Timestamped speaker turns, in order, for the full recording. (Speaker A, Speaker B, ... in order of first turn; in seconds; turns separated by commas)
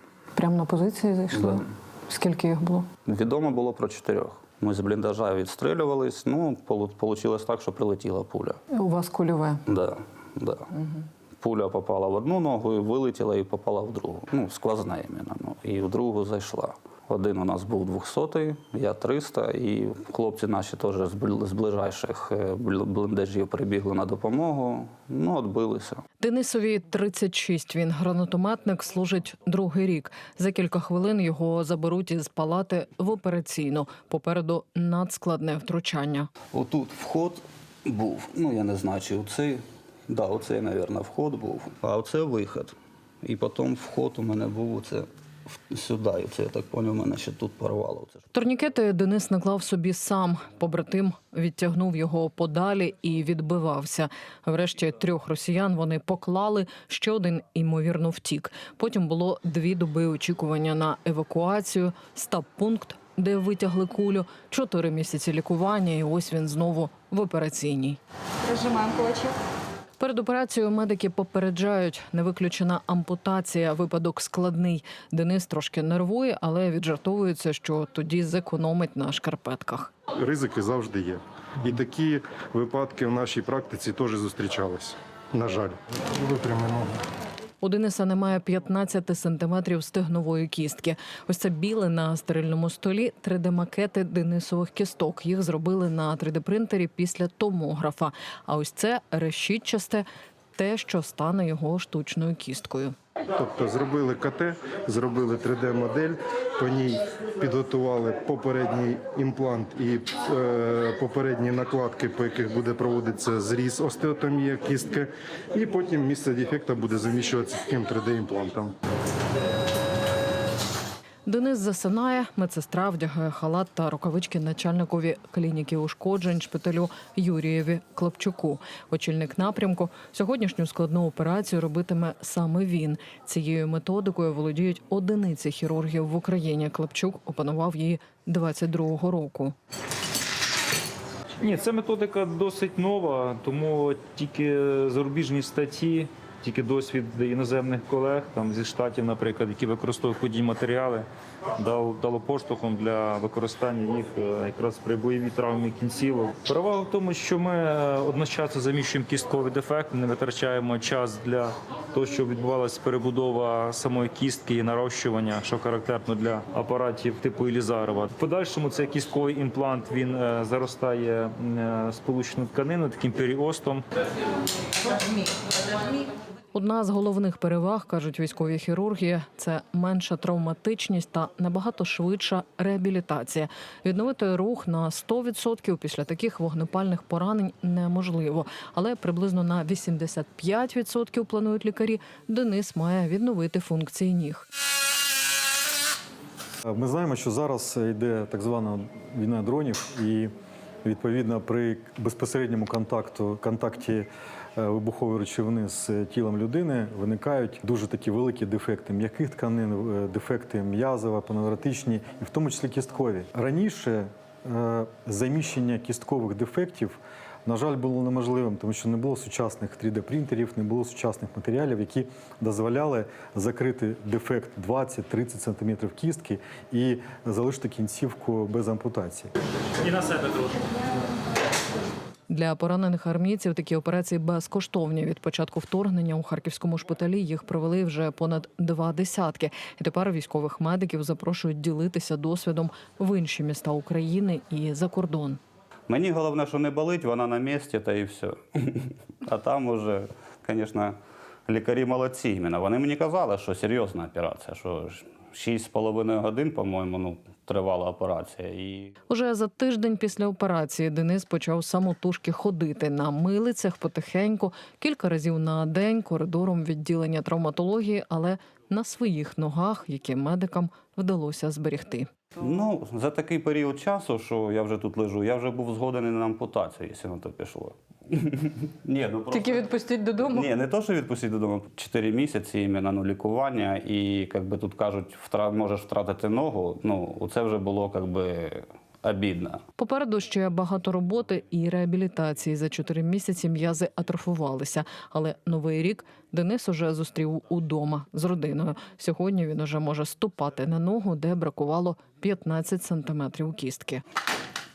Speaker A: 0.4-2.9, Speaker B: 3.0-8.6, Speaker A: 8.7-9.7, Speaker B: 9.7-10.7, Speaker B: 11.4-26.0, Speaker A: 26.2-36.3, Speaker B: 36.5-48.2, Speaker A: 48.3-68.0, Speaker C: 68.5-69.3, Speaker A: 70.0-79.9, Speaker D: 80.2-86.9, Speaker A: 87.6-103.0, Speaker D: 103.4-118.7, Speaker A: 121.3-139.6, Speaker E: 141.4-173.8, Speaker A: 176.5-194.5, Speaker F: 196.7-200.3, Speaker F: 200.8-229.3, Speaker E: 229.8-230.7, Speaker A: 232.3-245.4, Speaker B: 245.9-251.0, Speaker B: 251.5-258.9, Speaker A: 259.1-272.1, Speaker B: 272.4-289.6, Speaker C: 279.4-280.4, Speaker A: 289.8-304.0